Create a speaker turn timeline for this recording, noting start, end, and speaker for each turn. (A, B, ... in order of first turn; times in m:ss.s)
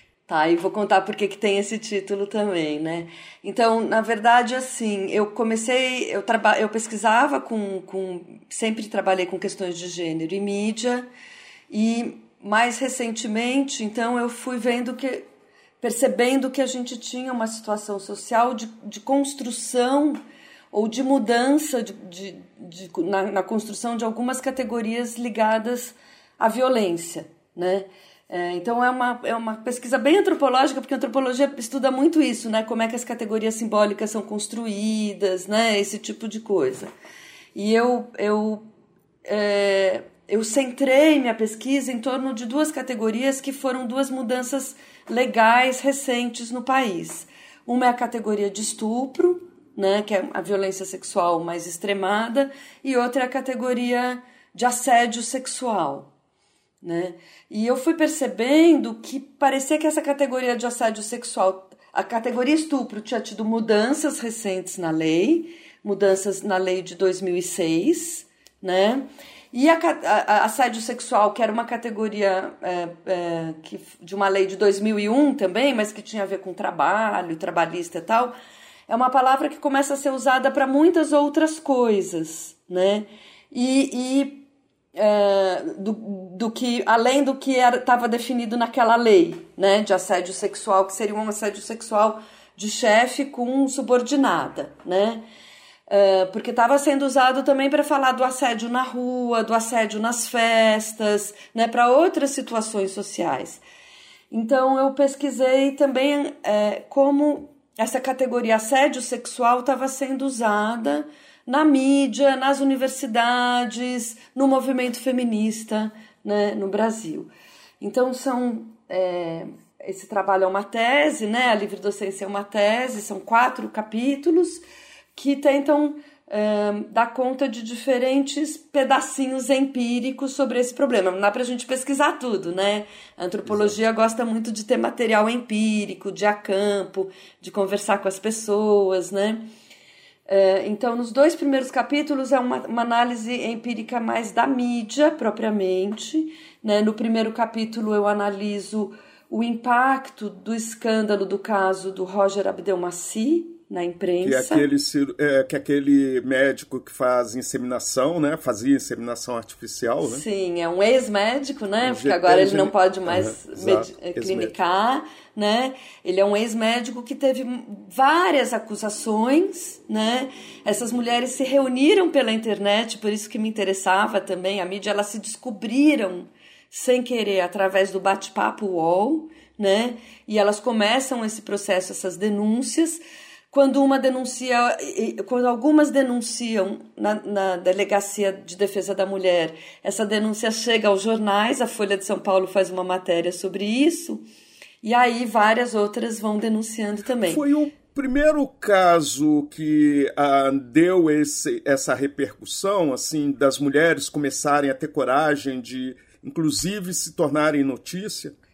0:00.3-0:11.1 A
0:11.7-0:15.2 A
0:15.8-0:20.2 A
0:20.7-0:36.9 A
0:37.5-0:38.6 A
0:39.2-0:56.1 A
0:56.8-1:18.3 A
1:18.9-1:35.2 A
1:35.9-1:43.6 A
1:44.3-2:04.6 A
2:05.1-2:19.4 A
2:13.4-2:13.8 B
2:20.3-2:34.7 A
2:34.2-2:40.2 B
2:40.0-3:14.2 A
2:41.8-2:44.5 B
3:14.8-3:17.4 A
3:17.2-3:28.3 B